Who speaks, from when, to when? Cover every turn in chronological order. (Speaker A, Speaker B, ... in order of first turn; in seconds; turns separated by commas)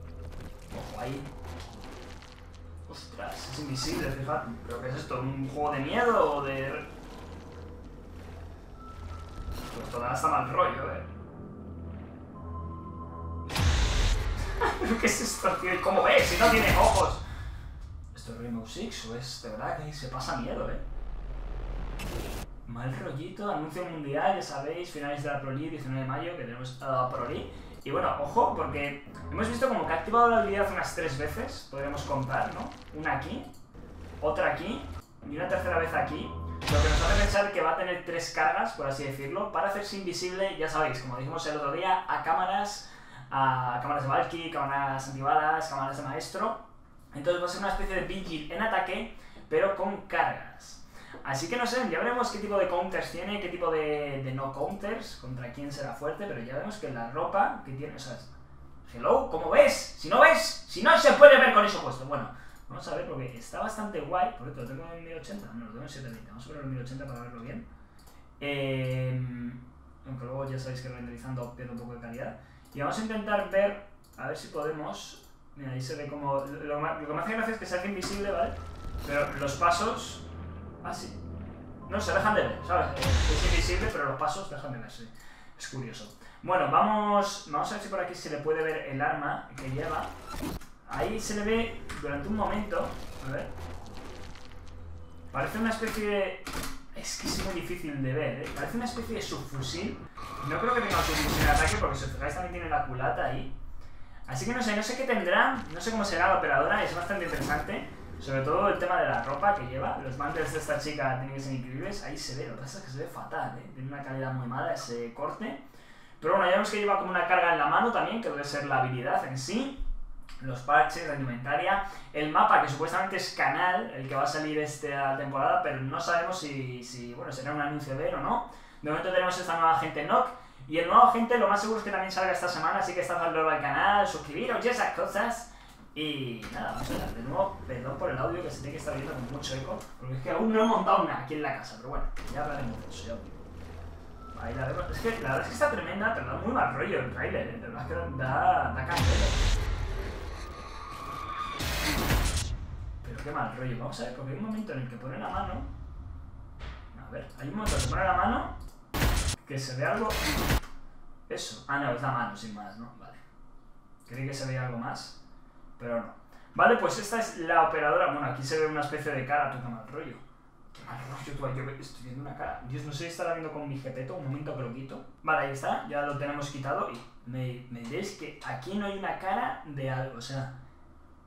Speaker A: 0.7-1.3, Speaker A: 2.9-6.9, Speaker A: 9.6-11.1, Speaker A: 14.6-17.2, Speaker A: 18.1-20.8, Speaker A: 22.7-33.5, Speaker A: 34.2-46.6, Speaker A: 47.1-67.7, Speaker A: 68.4-80.2, Speaker A: 80.8-81.2, Speaker A: 81.9-90.1, Speaker A: 90.9-93.5, Speaker A: 95.3-96.4, Speaker A: 96.9-103.5, Speaker A: 104.3-115.6, Speaker A: 116.2-119.8, Speaker A: 120.4-143.4, Speaker A: 144.3-149.4, Speaker A: 153.0-155.7, Speaker A: 156.9-158.5, Speaker A: 159.4-160.2, Speaker A: 161.3-163.2, Speaker A: 164.1-165.2, Speaker A: 165.8-170.2, Speaker A: 170.7-180.6